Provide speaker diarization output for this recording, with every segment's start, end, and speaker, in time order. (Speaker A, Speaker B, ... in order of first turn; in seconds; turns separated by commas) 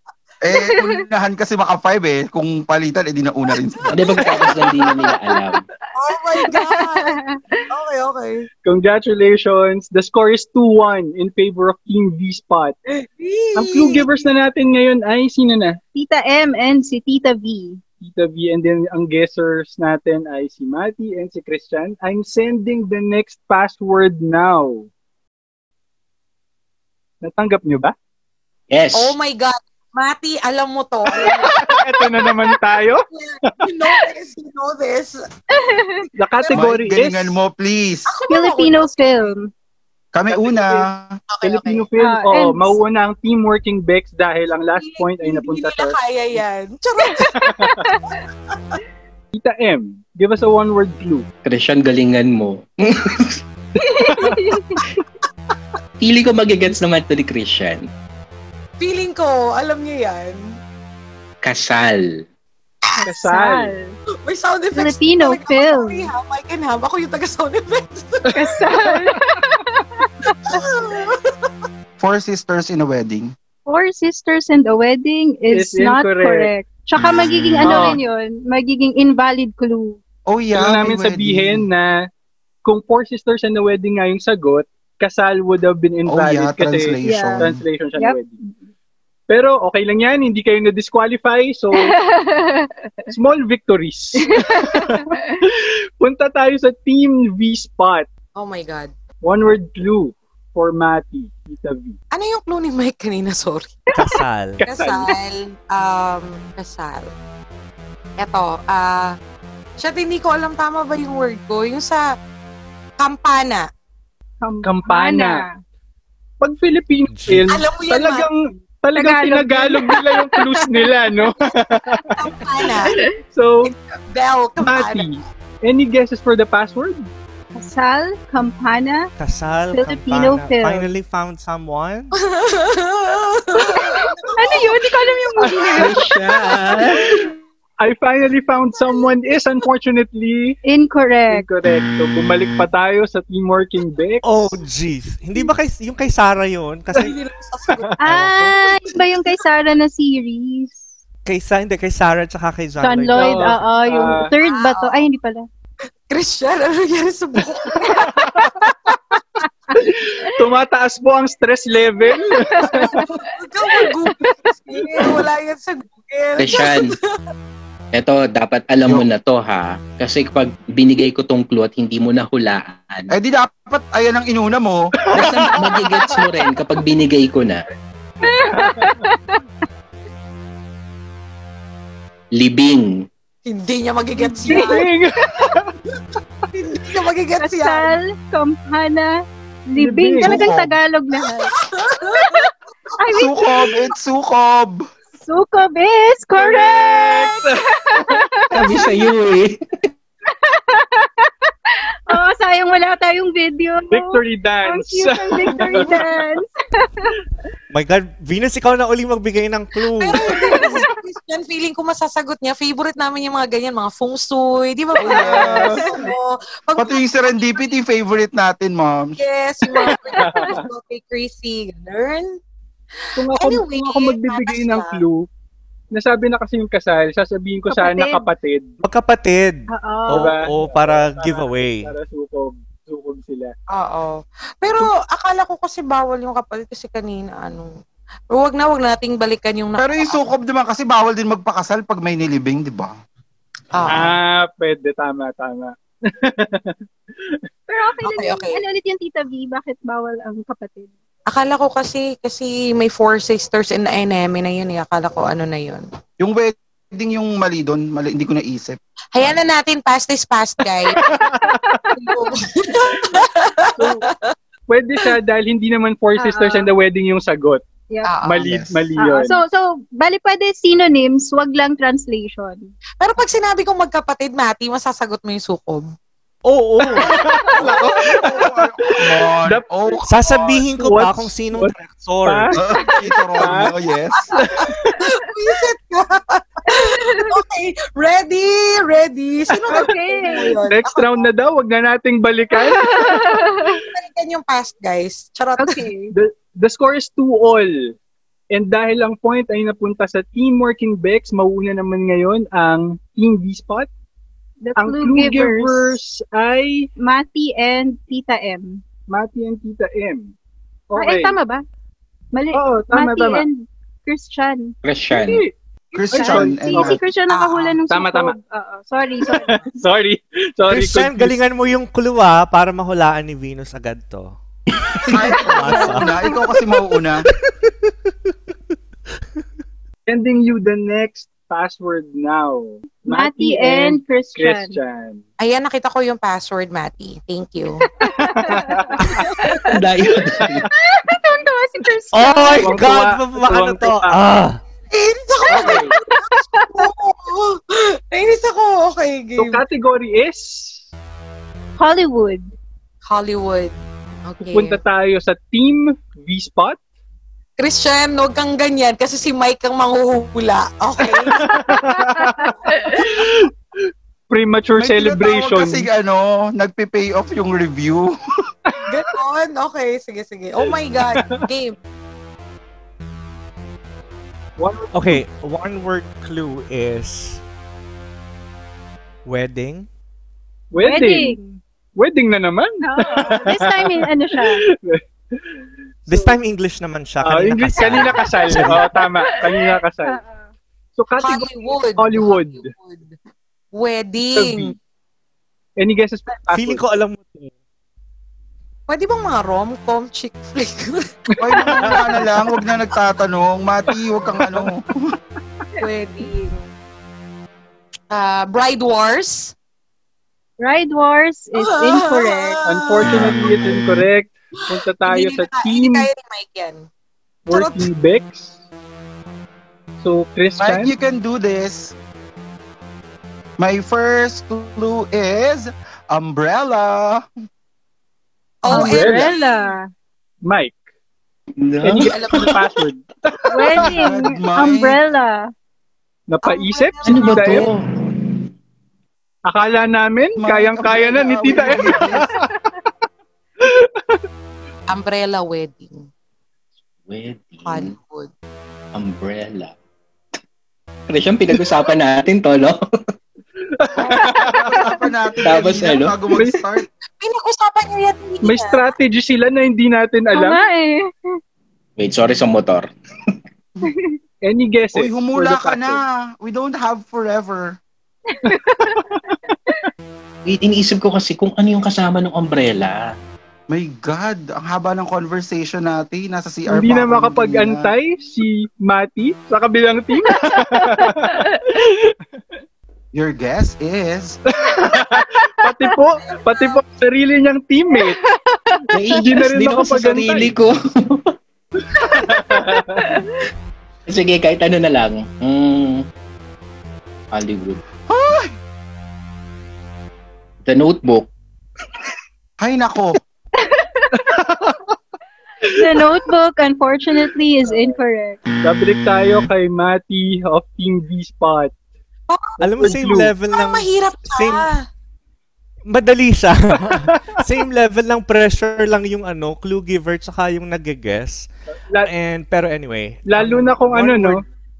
Speaker A: 0.4-4.2, Speaker B: 0.5-1.0, Speaker C: 3.9-5.6, Speaker B: 4.2-5.5, Speaker D: 4.2-4.5, Speaker D: 6.0-8.5, Speaker B: 6.3-7.7, Speaker E: 8.6-12.7, Speaker D: 12.9-14.2, Speaker E: 13.6-15.8, Speaker B: 15.9-17.8, Speaker E: 18.0-24.9, Speaker E: 27.2-27.9, Speaker C: 28.7-29.2, Speaker D: 28.9-32.1, Speaker E: 31.1-33.0, Speaker D: 32.8-35.2, Speaker B: 35.5-36.1, Speaker E: 36.2-37.4, Speaker D: 36.3-36.6, Speaker A: 36.5-38.1, Speaker D: 38.1-39.3, Speaker B: 38.3-39.5, Speaker A: 40.1-41.2, Speaker E: 40.3-40.9, Speaker D: 41.3-41.9, Speaker E: 41.4-46.0, Speaker B: 42.0-42.8, Speaker D: 44.8-47.7, Speaker B: 47.2-48.1, Speaker E: 47.3-47.7, Speaker D: 48.5-48.8, Speaker E: 49.3-51.3, Speaker C: 51.4-53.4, Speaker B: 53.8-55.0, Speaker E: 54.0-54.5, Speaker C: 56.0-57.9, Speaker D: 58.8-60.6, Speaker C: 61.4-62.2, Speaker B: 63.0-64.0, Speaker E: 63.0-63.7, Speaker D: 64.2-68.2, Speaker B: 64.7-66.1, Speaker E: 68.3-69.0, Speaker B: 68.3-70.6, Speaker D: 70.4-71.5, Speaker A: 72.0-73.3, Speaker B: 73.7-80.0, Speaker E: 75.5-76.5, Speaker E: 77.6-78.0, Speaker A: 80.3-81.7, Speaker E: 80.5-81.9, Speaker E: 82.6-88.4, Speaker A: 86.0-87.6, Speaker B: 87.0-88.2, Speaker E: 89.3-91.9, Speaker B: 91.7-93.1, Speaker E: 93.1-98.1, Speaker B: 94.2-95.4, Speaker D: 98.3-98.9, Speaker E: 99.2-102.0, Speaker D: 102.1-103.8, Speaker F: 103.9-104.7, Speaker E: 104.6-105.1, Speaker D: 104.6-107.1, Speaker D: 108.2-109.2, Speaker D: 109.8-112.1, Speaker D: 113.0-113.7, Speaker B: 114.4-115.5, Speaker E: 114.6-115.5, Speaker E: 116.4-122.2, Speaker F: 117.1-117.5, Speaker D: 117.5-118.3, Speaker B: 118.9-121.0, Speaker D: 122.2-123.0, Speaker B: 122.8-123.2, Speaker E: 123.3-123.7, Speaker D: 123.6-125.1, Speaker E: 124.6-127.1, Speaker B: 127.5-129.1, Speaker F: 129.2-132.1, Speaker B: 129.7-130.9, Speaker D: 132.2-135.2, Speaker B: 134.3-136.0, Speaker E: 135.4-135.9, Speaker C: 135.7-137.3, Speaker E: 137.0-137.2, Speaker E: 137.8-140.6, Speaker B: 140.6-141.4, Speaker E: 141.3-144.6, Speaker F: 144.2-147.1, Speaker D: 146.9-148.0, Speaker B: 148.0-150.8, Speaker F: 148.1-148.6, Speaker F: 151.2-153.6, Speaker B: 152.8-155.5, Speaker E: 153.1-154.3, Speaker D: 154.4-155.1, Speaker D: 156.1-158.5, Speaker B: 157.9-158.5, Speaker E: 157.9-158.5, Speaker B: 159.7-160.4, Speaker E: 159.8-163.1, Speaker B: 162.1-163.3, Speaker D: 162.6-167.2, Speaker B: 164.2-164.8, Speaker C: 166.4-166.9, Speaker C: 167.9-173.1, Speaker A: 173.1-174.9, Speaker E: 175.0-176.2, Speaker C: 175.1-177.6, Speaker B: 178.2-179.4, Speaker E: 178.6-178.9, Speaker C: 182.3-183.1, Speaker D: 183.4-184.9, Speaker B: 184.4-184.9, Speaker E: 184.4-185.7, Speaker D: 186.5-187.9, Speaker B: 187.4-191.5, Speaker E: 189.8-190.5, Speaker A: 190.2-190.8, Speaker D: 191.2-192.5, Speaker B: 193.0-193.8, Speaker A: 193.1-194.8, Speaker B: 195.2-199.0, Speaker E: 196.4-198.2, Speaker C: 198.5-199.6, Speaker B: 200.5-201.2, Speaker B: 202.1-207.1, Speaker E: 203.9-206.0, Speaker D: 205.6-205.9, Speaker F: 207.7-210.3, Speaker D: 210.0-217.0, Speaker B: 210.3-210.9, Speaker A: 215.0-215.9, Speaker E: 215.1-216.0, Speaker B: 215.2-216.0, Speaker A: 216.8-219.2, Speaker D: 219.2-222.4, Speaker B: 219.9-220.6, Speaker E: 220.1-220.7, Speaker E: 223.2-225.3, Speaker D: 223.3-225.0, Speaker E: 225.9-228.7, Speaker B: 227.7-228.3, Speaker F: 228.8-231.9, Speaker B: 229.7-230.4, Speaker E: 230.1-233.5, Speaker D: 233.7-237.7, Speaker D: 238.3-240.2, Speaker A: 239.8-242.9, Speaker D: 243.7-244.2, Speaker E: 243.9-246.8, Speaker B: 247.7-250.9, Speaker D: 248.0-248.6, Speaker D: 251.3-255.8, Speaker A: 256.2-259.3, Speaker D: 259.1-261.0, Speaker E: 260.9-261.8, Speaker B: 261.2-262.1, Speaker D: 261.9-264.3, Speaker E: 263.8-264.0, Speaker E: 264.7-267.6, Speaker B: 266.1-266.7, Speaker B: 267.9-268.2, Speaker D: 268.0-268.4, Speaker E: 268.2-269.4, Speaker A: 268.4-268.9, Speaker B: 268.9-272.7, Speaker D: 273.0-275.9, Speaker F: 276.4-277.4, Speaker E: 276.9-282.6, Speaker D: 277.0-278.2, Speaker A: 277.6-280.1, Speaker F: 280.1-282.6, Speaker A: 282.5-284.3, Speaker E: 283.4-283.7, Speaker D: 284.2-291.3, Speaker E: 284.3-284.9, Speaker B: 286.7-287.3, Speaker B: 289.7-290.6, Speaker E: 289.7-293.4, Speaker B: 292.5-293.8, Speaker D: 293.9-295.8, Speaker B: 295.6-296.1, Speaker E: 296.1-297.9, Speaker E: 298.5-303.9, Speaker B: 304.6-306.0, Speaker E: 304.8-306.9, Speaker B: 307.0-308.8, Speaker E: 309.1-310.3, Speaker E: 310.9-311.4, Speaker B: 310.9-311.6, Speaker B: 312.3-314.8, Speaker E: 312.5-313.4, Speaker C: 314.8-315.4, Speaker E: 315.1-315.5, Speaker A: 315.9-317.0, Speaker B: 316.0-319.6, Speaker E: 316.1-317.0, Speaker D: 317.3-317.8, Speaker E: 317.9-318.4, Speaker E: 319.3-321.4, Speaker F: 320.7-324.4, Speaker F: 325.0-326.2, Speaker A: 325.1-327.3, Speaker B: 325.4-326.3, Speaker E: 330.1-335.2, Speaker B: 333.0-334.8, Speaker D: 335.4-337.8, Speaker B: 337.9-339.8, Speaker E: 338.2-339.3, Speaker D: 339.0-339.6, Speaker C: 339.7-340.6, Speaker E: 340.4-340.6, Speaker B: 340.7-342.9, Speaker F: 342.1-344.6, Speaker E: 342.6-344.2, Speaker D: 344.9-349.6, Speaker E: 345.5-345.9, Speaker B: 345.6-346.9, Speaker E: 349.4-350.8, Speaker B: 351.8-352.5, Speaker D: 353.1-354.8, Speaker E: 354.5-356.8, Speaker D: 357.6-361.5, Speaker E: 361.2-363.5, Speaker B: 361.6-363.2, Speaker E: 364.3-365.9, Speaker A: 364.8-368.1, Speaker D: 368.8-371.8, Speaker E: 371.0-371.4, Speaker E: 374.6-375.2, Speaker F: 374.9-377.4, Speaker F: 379.2-379.9, Speaker E: 380.7-381.4, Speaker B: 380.8-381.6, Speaker E: 381.9-386.4, Speaker B: 382.8-384.6, Speaker F: 386.1-388.9, Speaker E: 387.2-390.2, Speaker B: 388.1-390.5, Speaker E: 390.9-392.7, Speaker D: 391.2-393.1, Speaker D: 393.7-394.7, Speaker E: 394.4-394.8, Speaker E: 395.8-396.8, Speaker F: 396.5-397.5, Speaker D: 398.9-401.1, Speaker E: 401.3-402.2, Speaker A: 401.4-405.1, Speaker E: 404.4-404.7, Speaker D: 405.8-406.6, Speaker D: 408.1-409.5, Speaker B: 410.6-412.6, Speaker D: 411.6-413.5, Speaker E: 412.6-416.1, Speaker C: 413.0-413.9, Speaker D: 414.6-416.9, Speaker E: 417.4-418.6, Speaker D: 417.5-417.9, Speaker E: 420.0-420.9, Speaker A: 420.6-421.9, Speaker A: 423.6-427.3, Speaker D: 428.6-429.7, Speaker B: 428.6-429.9, Speaker E: 428.7-429.3, Speaker E: 430.4-430.8, Speaker C: 431.6-432.6, Speaker E: 431.8-433.9, Speaker D: 432.0-432.7, Speaker B: 433.5-435.5, Speaker A: 433.8-435.0, Speaker E: 436.3-437.7, Speaker D: 436.4-437.7, Speaker C: 437.0-437.9, Speaker E: 439.4-442.5, Speaker A: 440.4-442.4, Speaker E: 443.6-444.2, Speaker D: 444.9-446.1, Speaker C: 447.1-447.9, Speaker D: 447.6-448.3, Speaker C: 448.9-449.7, Speaker C: 451.1-452.8, Speaker E: 453.7-454.8, Speaker A: 453.9-456.9, Speaker B: 454.8-455.0, Speaker C: 455.4-456.2, Speaker E: 456.3-456.6, Speaker D: 457.2-458.9, Speaker E: 458.4-460.6, Speaker B: 460.3-461.4, Speaker C: 462.0-462.9, Speaker B: 463.8-464.1, Speaker E: 464.4-466.0, Speaker A: 464.9-467.8, Speaker B: 468.3-469.8, Speaker C: 470.4-473.1, Speaker A: 473.7-477.9, Speaker E: 476.7-482.1, Speaker B: 480.2-481.6, Speaker A: 483.1-484.4, Speaker E: 484.5-488.2, Speaker B: 484.8-485.9, Speaker D: 486.5-486.8, Speaker B: 487.9-489.2, Speaker C: 488.9-491.3, Speaker E: 489.1-490.5, Speaker E: 491.9-493.1, Speaker B: 492.1-493.2, Speaker C: 494.1-496.0, Speaker C: 497.3-497.8, Speaker A: 498.1-498.5, Speaker C: 500.6-501.3, Speaker A: 502.6-503.2, Speaker B: 503.6-504.4, Speaker E: 504.2-504.8, Speaker B: 505.6-508.4, Speaker E: 507.7-507.9, Speaker E: 508.6-511.7, Speaker D: 512.3-513.0, Speaker F: 512.6-514.7, Speaker E: 512.6-513.3, Speaker D: 513.5-514.8, Speaker F: 515.9-521.5, Speaker E: 516.9-517.2, Speaker F: 522.0-524.4, Speaker E: 523.2-524.4